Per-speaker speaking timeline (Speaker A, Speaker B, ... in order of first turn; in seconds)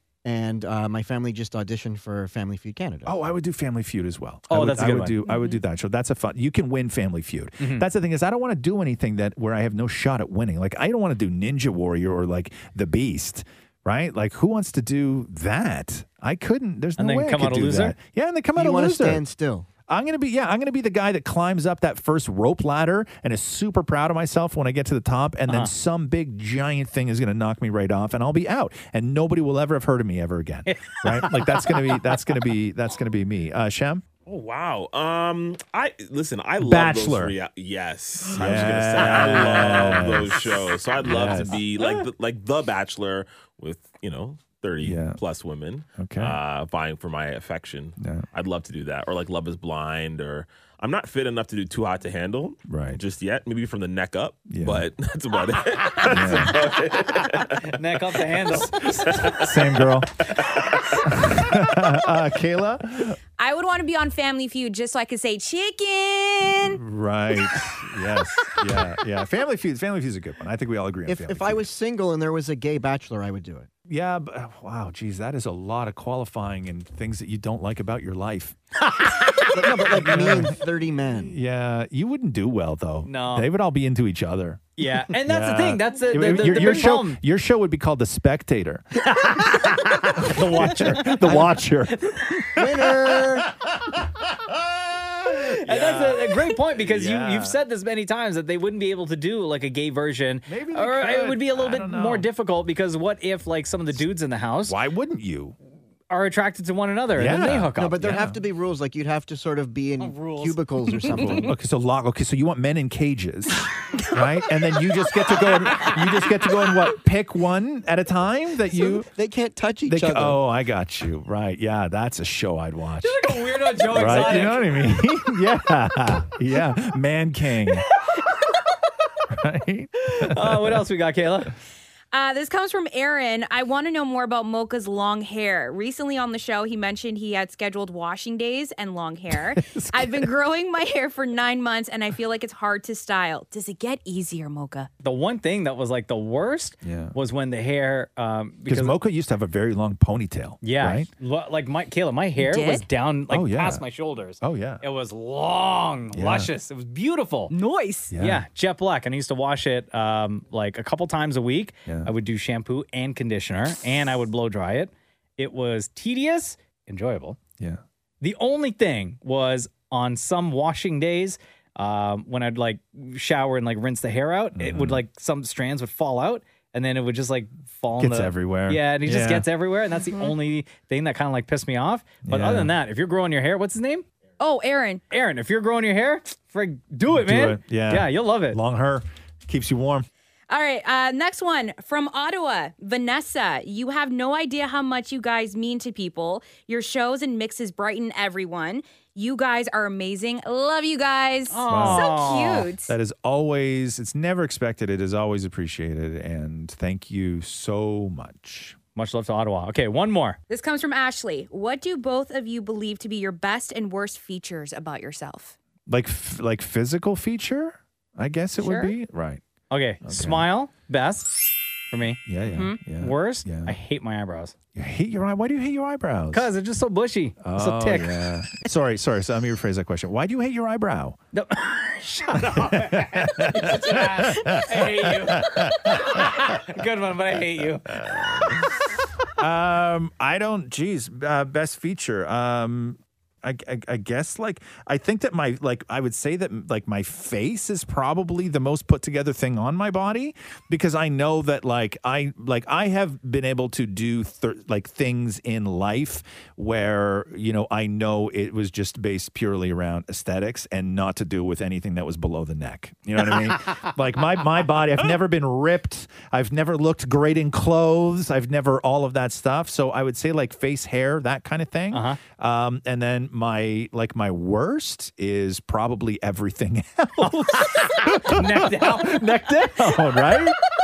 Speaker A: 0.2-3.2, 18.5-19.7, 71.1-73.7, 79.5-81.4, 92.5-93.5, 107.8-111.5, 118.8-120.4
Speaker B: 3.0-19.2, 19.9-34.0, 36.6-37.3, 38.3-41.6, 44.8-45.2, 46.0-46.4, 48.0-48.3, 52.7-53.0, 54.5-54.9, 56.0-56.6, 58.5-60.1, 61.1-63.2, 66.6-71.7, 73.9-78.5, 79.9-80.6, 81.1-97.6, 100.5-102.3, 104.6-105.5, 107.1-108.4, 111.1-119.1, 119.8-127.9, 129.3-130.8, 139.3-140.3, 146.8-147.2, 148.7-151.1, 153.3-153.8, 154.4-154.8, 156.1-156.5, 158.1-158.4, 161.9-162.1, 174.5-175.0, 178.0-179.5, 182.2-182.7, 187.1-190.1, 201.7-202.2, 202.9-208.8, 215.9-219.4, 220.0-220.5, 222.2-223.8, 224.7-226.5, 227.4-231.2, 232.4-236.5, 237.9-238.7, 239.3-280.6
Speaker C: 4.5-5.2, 7.6-7.9, 17.0-17.9, 30.7-32.2, 57.6-59.4, 78.9-79.5, 83.0-83.5, 84.8-87.2, 89.0-92.5, 95.4-104.8, 106.1-108.0, 110.0-110.6, 123.0-124.9, 127.9-128.6, 130.0-131.5, 145.0-148.9, 150.6-157.5, 158.2-167.4, 168.2-184.0, 185.1-188.6, 201.5-202.7, 208.9-210.4, 219.7-222.2, 223.0-224.5, 226.3-228.2, 231.3-238.6, 271.9-272.2, 277.2-279.9
Speaker D: 5.3-5.6, 63.4-66.8, 132.1-144.9, 152.4-152.9, 157.5-158.1, 180.0-180.3, 184.4-185.0, 190.5-202.9, 210.5-215.6, 218.6-218.9, 222.5-222.8
Speaker E: 34.2-57.6, 59.0-59.5